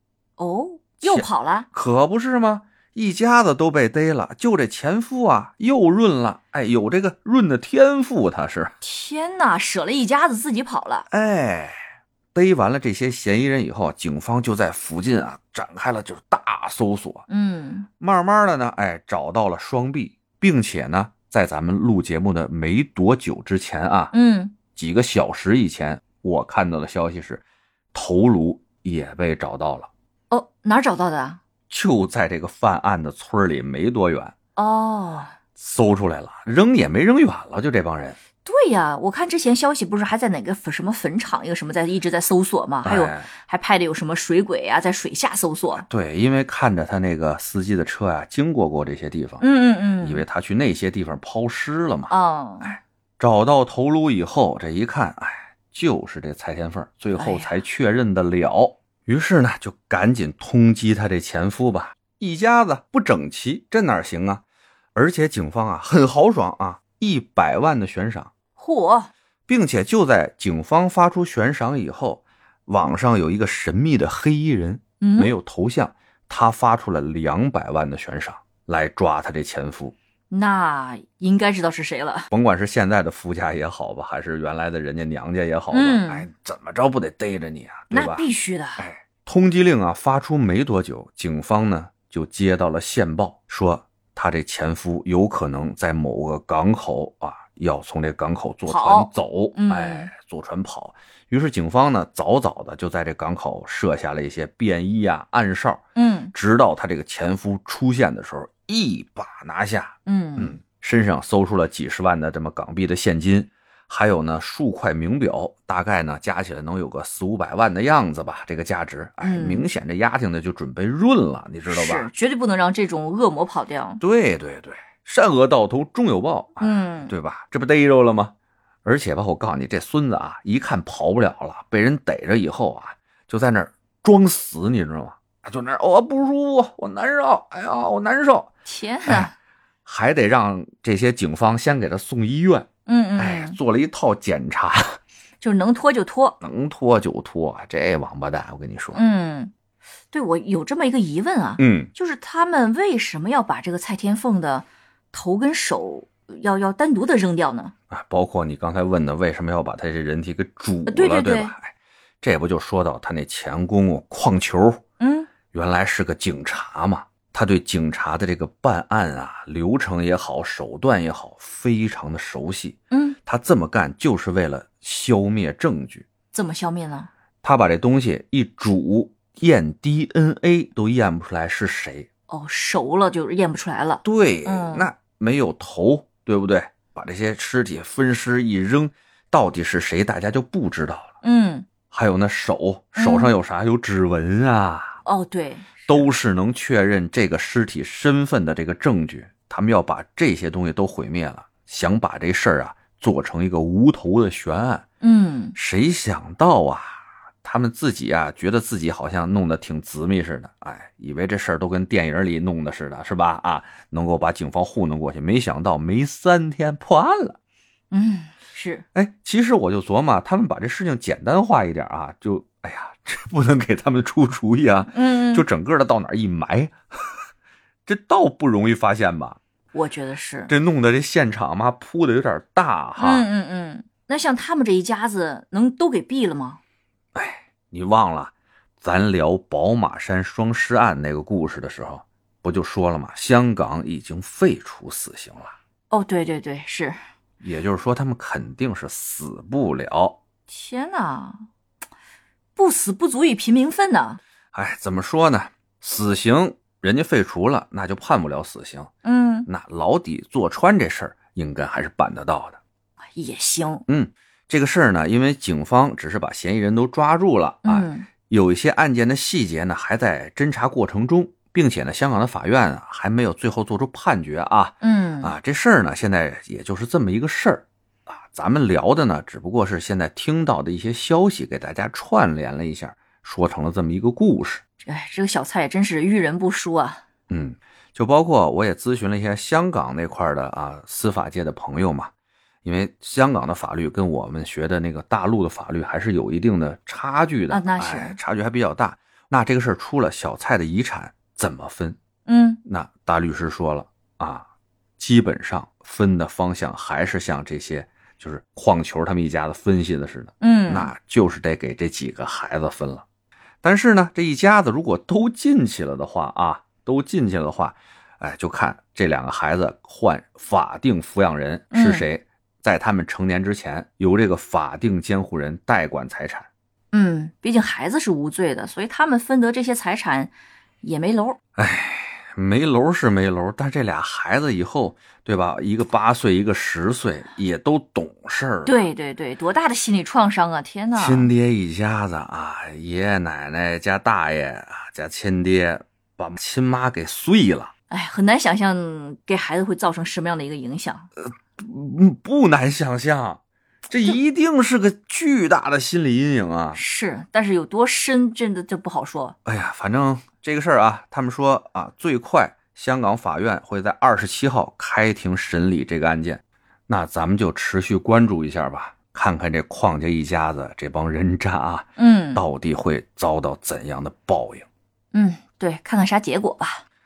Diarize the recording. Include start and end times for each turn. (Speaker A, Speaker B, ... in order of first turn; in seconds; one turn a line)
Speaker A: 0.4-1.7
Speaker B: 1.0-8.8
Speaker A: 8.8-11.1
Speaker B: 11.1-11.8
Speaker B: 12.3-17.3
Speaker A: 17.3-17.9
Speaker B: 18.0-24.1
Speaker A: 24.1-24.6
Speaker B: 24.7-27.4
Speaker B: 27.9-29.9
Speaker A: 30.3-31.4
Speaker B: 31.7-34.4
Speaker A: 34.6-35.4
Speaker B: 35.5-38.2
Speaker A: 38.5-45.9
Speaker B: 42.8-43.3
Speaker B: 45.9-49.4
Speaker A: 49.4-50.2
Speaker B: 50.0-64.4
Speaker A: 52.1-52.8
Speaker A: 57.1-57.6
Speaker B: 65.0-68.3
Speaker A: 68.6-69.1
Speaker B: 69.5-80.0
Speaker A: 75.0-75.3
Speaker A: 80.3-82.3
Speaker B: 82.3-88.3
Speaker A: 85.7-86.3
Speaker A: 87.9-88.9
Speaker B: 88.8-122.1
Speaker A: 98.7-100.1
Speaker A: 106.0-106.3
Speaker A: 110.1-110.6
Speaker A: 119.2-119.7
Speaker A: 121.7-124.0
Speaker B: 124.0-128.3
Speaker A: 126.6-127.1
Speaker B: 128.8-138.5
Speaker A: 138.7-139.3
Speaker B: 139.1-139.3
Speaker B: 139.9-145.0
Speaker A: 142.9-143.6
Speaker A: 145.4-146.4
Speaker B: 146.4-149.0
Speaker A: 148.9-149.5
Speaker A: 150.1-157.7
Speaker B: 151.6-151.9
Speaker B: 157.9-164.8
Speaker A: 160.9-161.5
Speaker A: 165.0-165.3
Speaker B: 165.5-176.1
Speaker A: 172.9-173.2
Speaker A: 176.3-177.1
Speaker B: 177.4-182.1
Speaker A: 182.3-184.9
Speaker B: 184.0-191.2
Speaker A: 191.2-191.7
Speaker B: 191.9-195.0
Speaker A: 192.9-193.3
Speaker A: 195.1-196.1
Speaker B: 195.9-204.9
Speaker A: 205.0-205.6
Speaker B: 205.6-217.4
Speaker A: 217.9-218.8
Speaker B: 218.9-227.2
Speaker A: 224.9-225.5
Speaker B: 227.9-229.4
Speaker A: 229.7-230.5
Speaker B: 230.5-233.3
Speaker A: 233.0-236.6
Speaker B: 237.2-245.6
Speaker A: 245.9-247.0
Speaker B: 247.4-250.2
Speaker A: 250.5-251.5
Speaker A: 252.6-254.2
Speaker B: 254.5-258.9
Speaker A: 259.0-259.5
Speaker B: 259.5-262.6
Speaker A: 263.1-263.9
Speaker B: 263.9-284.6
Speaker A: 267.6-268.1
Speaker A: 274.8-275.3
Speaker A: 284.8-287.0
Speaker B: 287.3-292.1
Speaker B: 292.6-302.0
Speaker A: 297.5-298.2
Speaker A: 302.3-302.6
Speaker B: 302.6-304.5
Speaker B: 305.0-313.1
Speaker A: 310.4-310.9
Speaker B: 313.6-326.5
Speaker A: 321.7-322.1
Speaker A: 326.9-331.4
Speaker B: 331.6-338.8
Speaker A: 338.6-341.3
Speaker B: 340.9-347.7
Speaker A: 347.9-351.1
Speaker B: 351.2-356.8
Speaker A: 356.7-359.4
Speaker B: 359.4-374.7
Speaker A: 372.0-372.4
Speaker A: 375.1-376.9